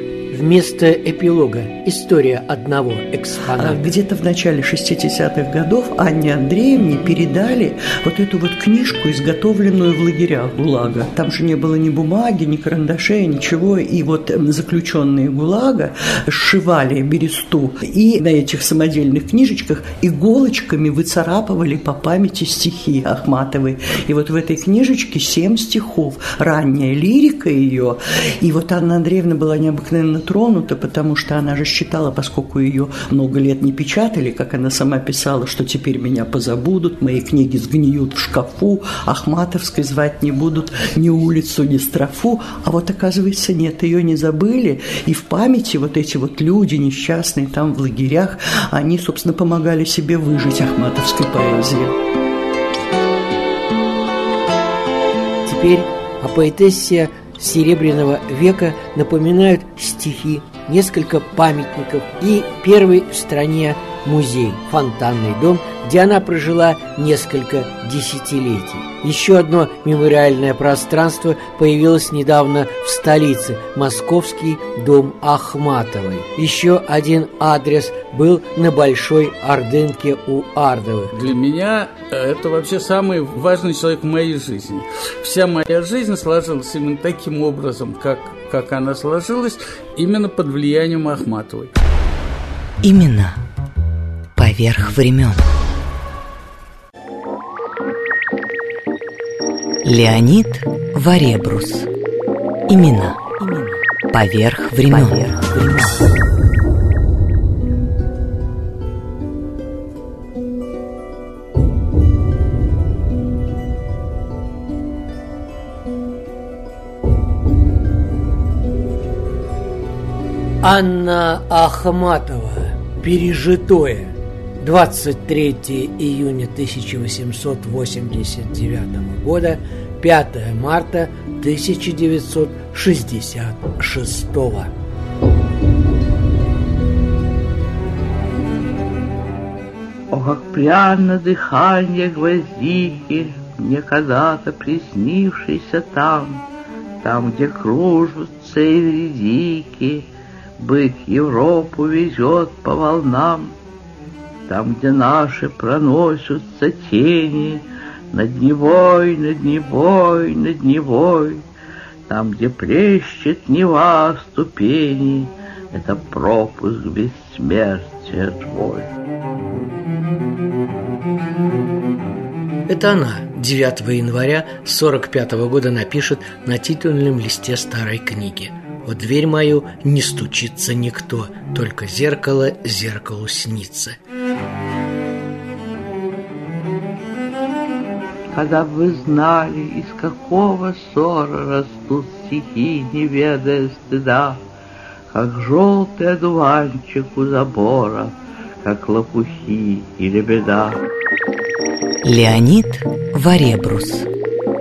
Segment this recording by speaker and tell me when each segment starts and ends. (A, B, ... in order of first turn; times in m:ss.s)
0:00.3-0:04.0 A
0:03.6-0:52.0 B
0:55.4-1:21.1 A
1:21.1-1:31.7 C
1:32.8-1:33.4 D
1:34.4-1:35.5 D
1:39.8-1:41.9 D
1:42.7-1:46.0 D
2:00.6-2:14.7 A
2:20.1-2:26.4 E
2:27.0-2:30.1 E
2:30.6-2:33.5 E
2:34.5-2:41.4 E
2:42.1-2:48.9 E
2:52.7-3:04.0 A
3:08.3-3:14.4 E
3:15.1-3:20.8 E
3:22.0-3:24.1 D